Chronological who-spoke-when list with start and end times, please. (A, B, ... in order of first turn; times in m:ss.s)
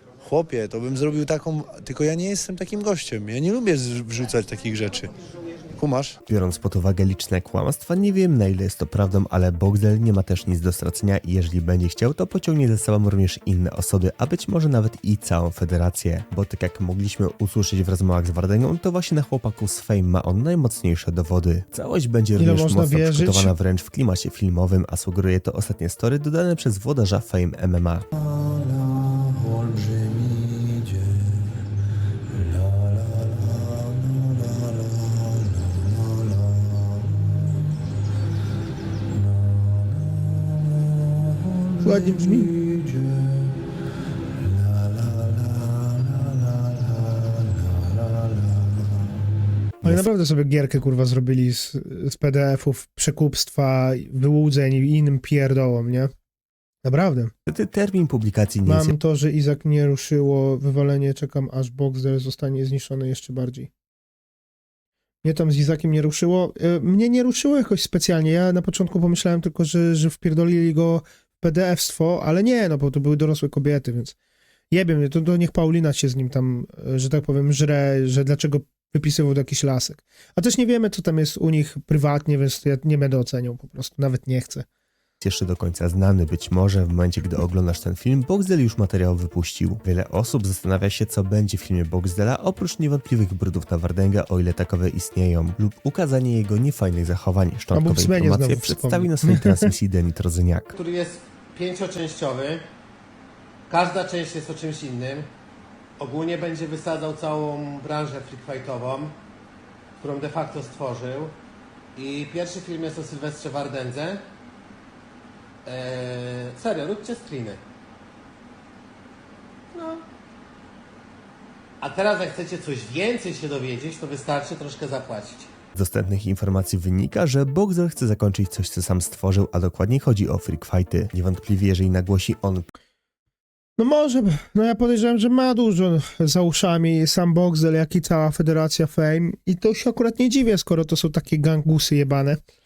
0:00.2-0:05.1 A
0:05.8-0:06.2 A
0:06.3-0:28.1 B
0:22.4-0:23.5 C
0:28.2-0:30.7 A
0:32.5-0:33.8 A
0:36.4-0:36.8 A
0:41.8-0:42.5 C
0:49.8-0:56.1 C
0:56.8-0:57.3 C
0:57.5-0:59.0 B
0:58.7-1:03.7 C
1:05.2-1:14.2 C
1:14.7-1:24.7 C
1:25.2-1:40.7 B
1:37.7-1:39.7 C
1:40.7-1:42.6 D
1:43.7-1:45.3 D
1:46.0-1:49.2 D
1:50.0-1:51.4 D
1:52.0-1:54.2 D
1:55.6-1:57.6 D
1:59.7-2:00.0 D
2:01.8-2:05.5 D
2:05.8-2:12.7 B
2:13.8-2:22.4 C